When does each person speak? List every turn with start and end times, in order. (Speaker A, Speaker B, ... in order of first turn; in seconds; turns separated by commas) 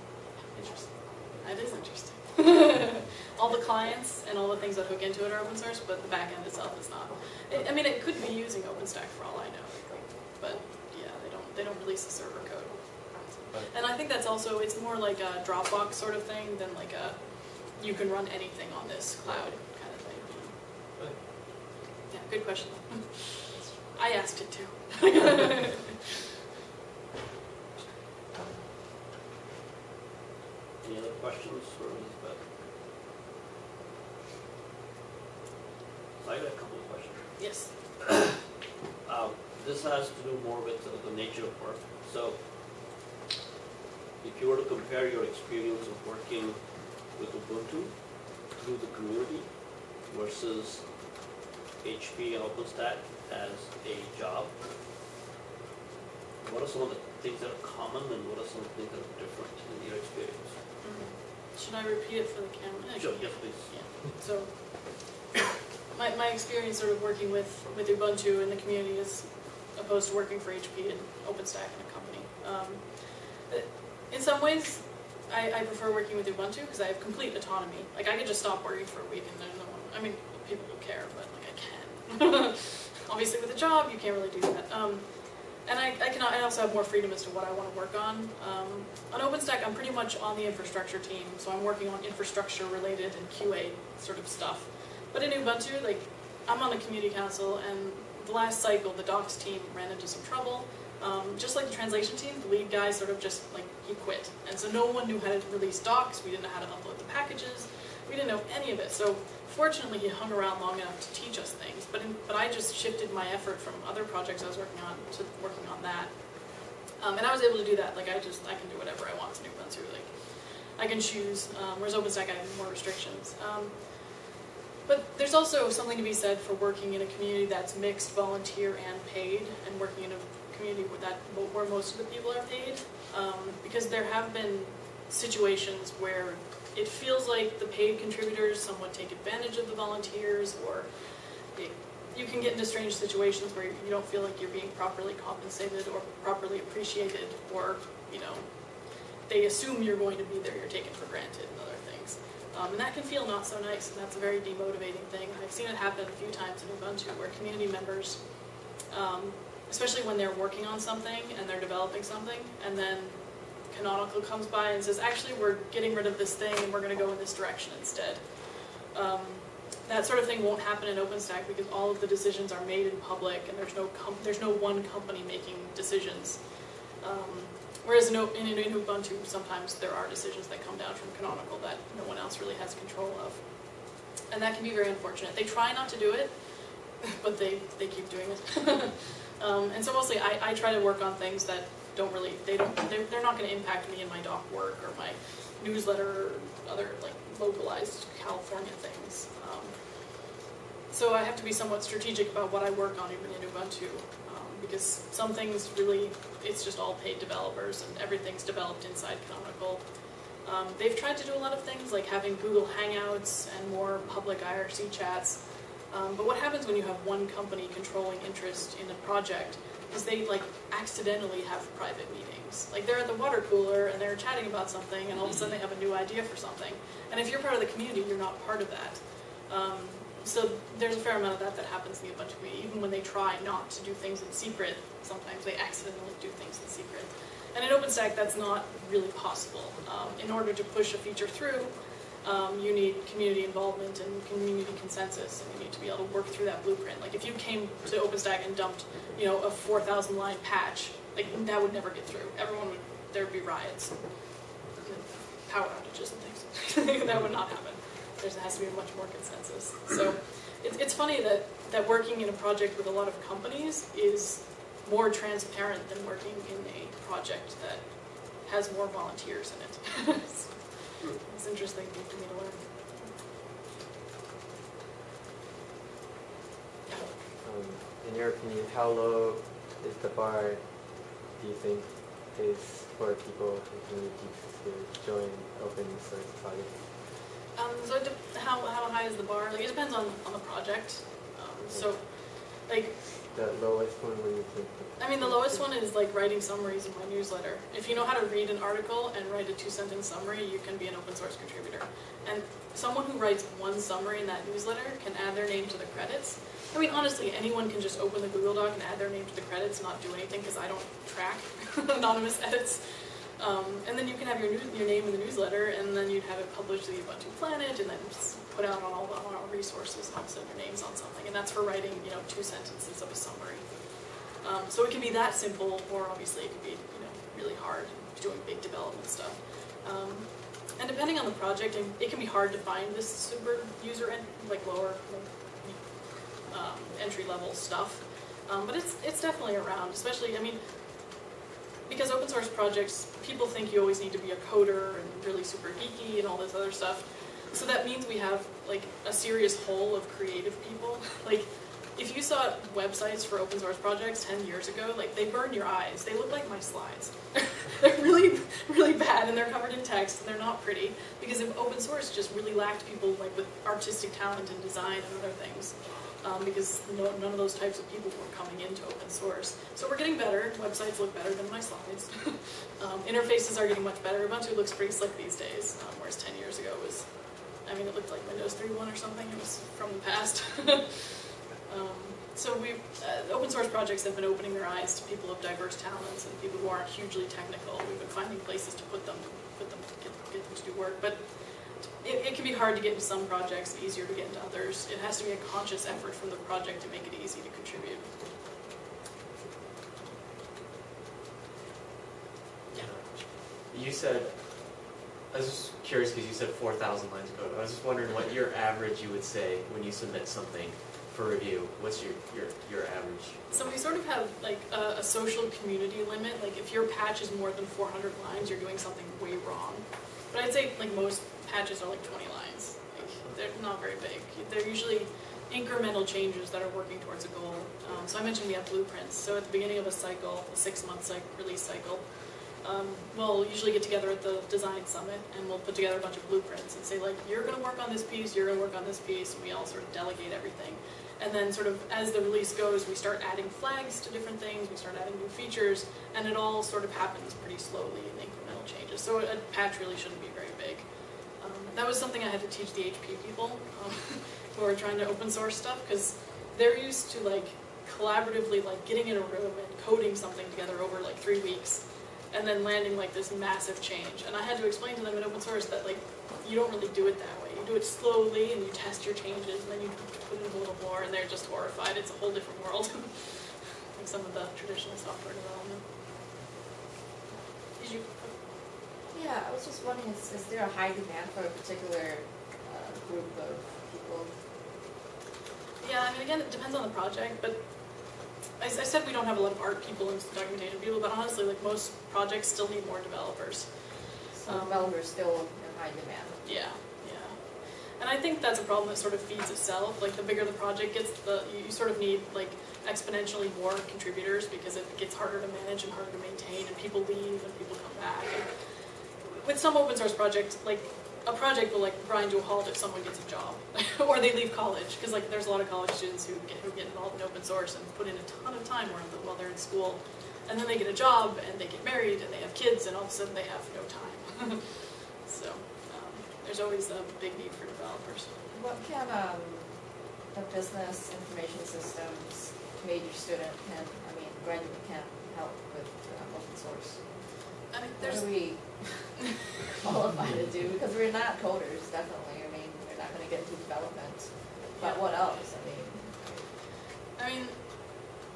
Speaker A: 0.5-1.4, Speaker B: 0.9-20.6, Speaker A: 19.2-19.5, Speaker B: 22.1-26.0, Speaker C: 30.8-32.5, Speaker C: 36.2-37.8, Speaker B: 37.4-38.1, Speaker C: 39.0-42.5, Speaker C: 44.2-51.1, Speaker C: 51.8-54.6, Speaker C: 56.4-60.6, Speaker B: 60.8-65.2, Speaker C: 62.9-63.9, Speaker B: 65.9-168.4, Speaker B: 168.9-176.5, Speaker B: 177.0-200.3, Speaker B: 200.9-273.1, Speaker B: 276.9-277.1, Speaker A: 277.4-280.7, Speaker D: 277.6-280.8, Speaker D: 281.4-286.7, Speaker A: 281.4-281.8, Speaker A: 282.3-286.6, Speaker B: 287.5-293.2, Speaker D: 293.3-295.5, Speaker B: 295.0-341.3, Speaker B: 341.8-398.1, Speaker A: 402.7-413.4, Speaker B: 413.5-475.9, Speaker B: 477.7-478.4, Speaker E: 479.1-484.4, Speaker B: 485.8-494.9, Speaker E: 494.3-496.4, Speaker B: 496.4-508.5, Speaker B: 509.2-528.3, Speaker E: 528.5-546.5, Speaker B: 537.7-538.9, Speaker B: 544.8-545.1, Speaker B: 547.1-547.6